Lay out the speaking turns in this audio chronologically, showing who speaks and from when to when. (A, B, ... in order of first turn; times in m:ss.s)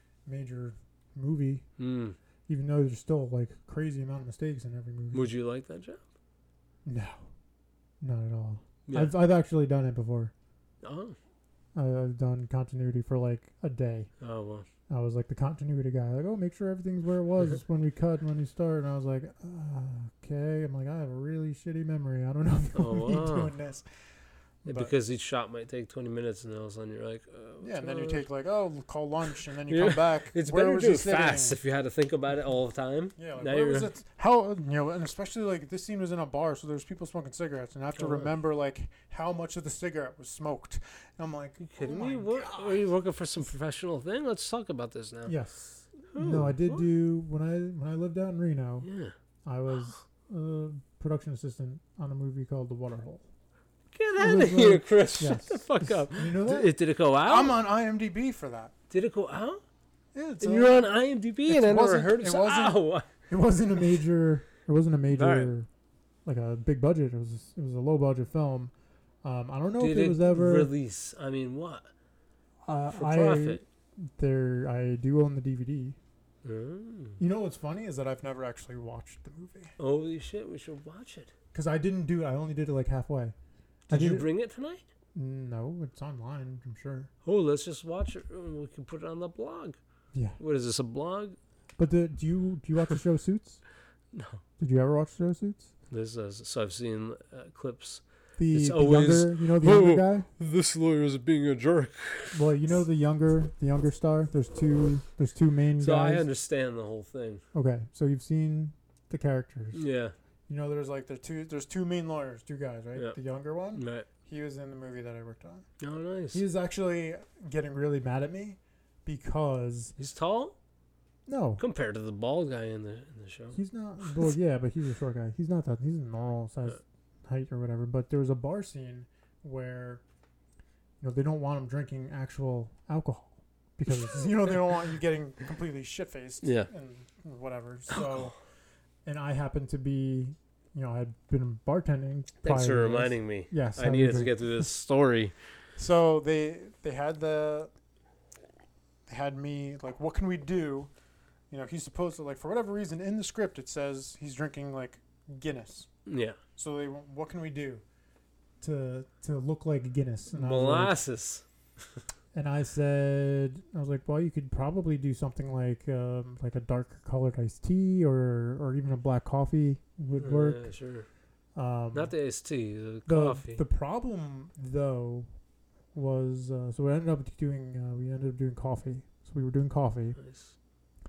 0:00.3-0:01.6 A
0:01.8-0:02.2 B
0:02.5-0:05.3 A
0:05.1-0:06.0 B
0:06.8-0:07.3 A
0:08.0-0:10.3 A
0:08.9-0:09.2 B
0:10.8-0:11.2 B
0:11.8-0:14.1 A
0:14.2-0:14.7 B
0:14.9-0:23.9 A
0:22.8-0:23.5 B
0:24.6-0:24.9 A
0:24.7-0:28.2 B
0:27.6-0:31.6 A
0:29.7-0:33.9 B
0:33.2-0:42.9 A
0:38.0-0:38.3 B
0:41.6-0:45.3 B
0:45.3-0:48.9 A
0:46.1-0:46.9 B
0:48.8-0:49.1 B
0:49.4-0:53.2 A
0:53.9-0:57.6 B
0:54.2-0:58.7 A
0:58.9-0:59.6 B
1:00.1-1:00.9 A
1:00.4-1:03.1 B
1:01.5-1:05.7 A
1:05.1-1:05.5 B
1:06.2-1:08.7 A
1:09.2-1:10.7 A
1:09.8-1:11.9 B
1:12.6-1:16.0 A
1:12.9-1:13.6 B
1:16.4-1:17.2 B
1:17.2-1:19.7 A
1:19.8-1:21.3 B
1:21.5-1:23.3 A
1:23.9-1:24.8 B
1:23.9-1:24.3 A
1:25.1-1:27.1 A
1:27.2-1:29.8 B
1:30.1-1:30.4 A
1:30.4-1:31.4 B
1:31.8-1:33.6 A
1:34.1-1:34.4 B
1:34.6-1:35.7 A
1:35.9-1:42.4 B
1:38.4-1:40.3 A
1:42.3-1:46.3 A
1:45.8-1:47.4 B
1:47.5-1:49.8 A
1:49.7-1:50.2 B
1:50.5-1:55.7 A
1:53.7-1:54.1 B
1:55.8-1:56.4 B
1:56.3-2:00.0 A
2:00.0-2:00.6 B
2:01.3-2:01.6 A
2:01.6-2:03.6 B
2:03.5-2:10.0 A
2:11.0-2:18.4 A
2:16.4-2:16.7 B
2:19.0-2:24.5 A
2:22.4-2:25.4 B
2:25.8-2:27.7 A
2:29.1-2:30.9 A
2:31.5-2:35.9 A
2:36.1-2:36.4 B
2:36.6-2:37.8 A
2:38.6-2:41.0 A
2:40.3-2:41.4 B
2:42.3-2:50.7 A
2:50.2-2:51.1 B
2:51.6-2:52.2 A
2:51.9-2:53.6 B
2:53.1-2:55.3 A
2:56.0-3:00.2 A
3:00.2-3:00.5 B